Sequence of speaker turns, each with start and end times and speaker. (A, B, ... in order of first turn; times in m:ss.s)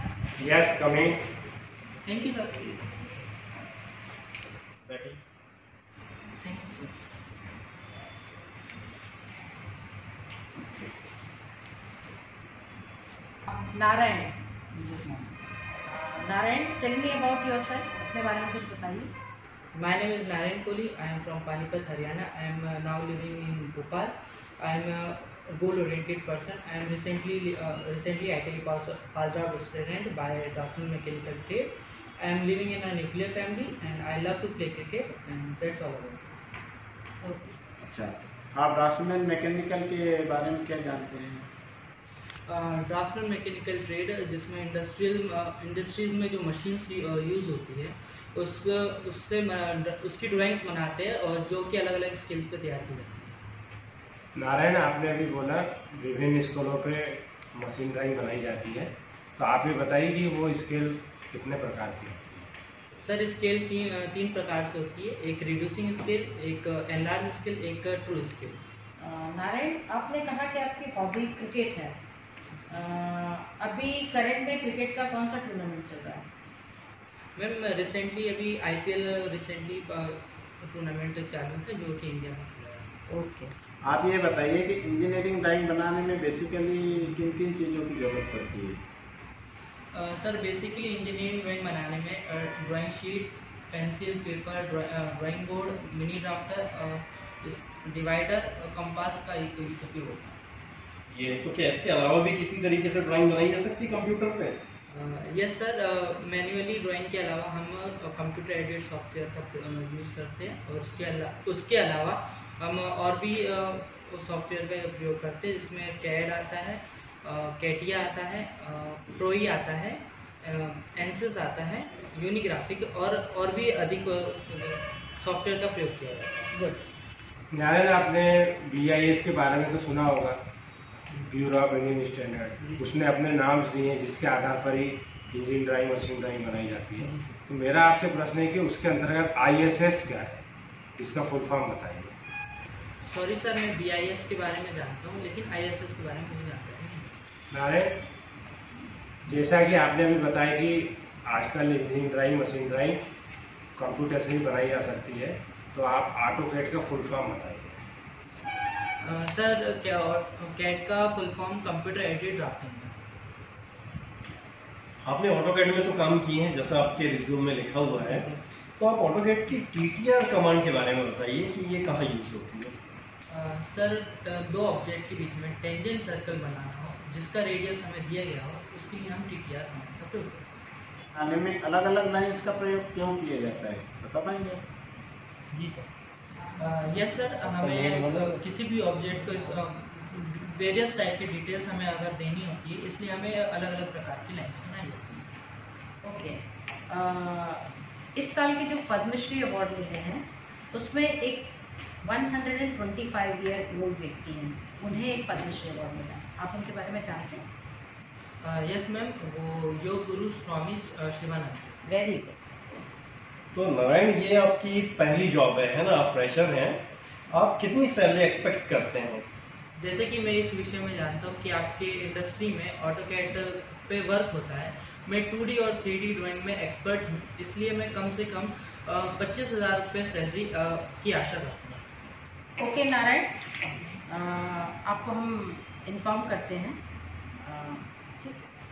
0:00.6-0:01.2 A
0:02.0-0:02.9 B
0:04.8-0:05.2 C
0:06.4-0:06.9 B
0:13.5-0:15.4 D
0:15.9-0:19.1 D
0:19.7-0:36.3 B
0:37.2-0:37.5 D
0:37.8-0:41.5 E
0:42.4-0:53.4 B
0:54.3-1:02.5 A
1:03.0-1:08.6 B
1:09.0-1:12.0 D
1:12.7-1:16.3 D
1:17.3-1:23.0 B
1:23.1-1:23.5 D
1:23.8-1:28.8 E
1:29.9-1:40.4 B
1:41.1-1:44.6 C
1:44.9-2:06.5 B
2:06.5-2:06.9 D
2:07.5-2:10.4 A
2:11.3-2:20.4 A
2:21.0-2:22.1 A
2:23.0-2:27.2 B
2:27.5-2:27.9 A
2:29.4-2:33.0 A
2:33.8-2:37.8 A
2:39.0-2:43.0 B
2:45.0-2:52.7 C
2:53.3-3:00.4 B
3:01.1-3:04.6 E
3:05.5-3:05.9 B
3:06.5-3:15.3 B
3:16.0-3:27.4 D
3:28.4-3:31.9 B
3:31.9-3:32.4 D
3:33.5-3:39.2 C
3:39.8-3:51.8 B
3:52.6-3:53.4 D
3:54.0-3:56.8 D
3:57.4-3:58.4 D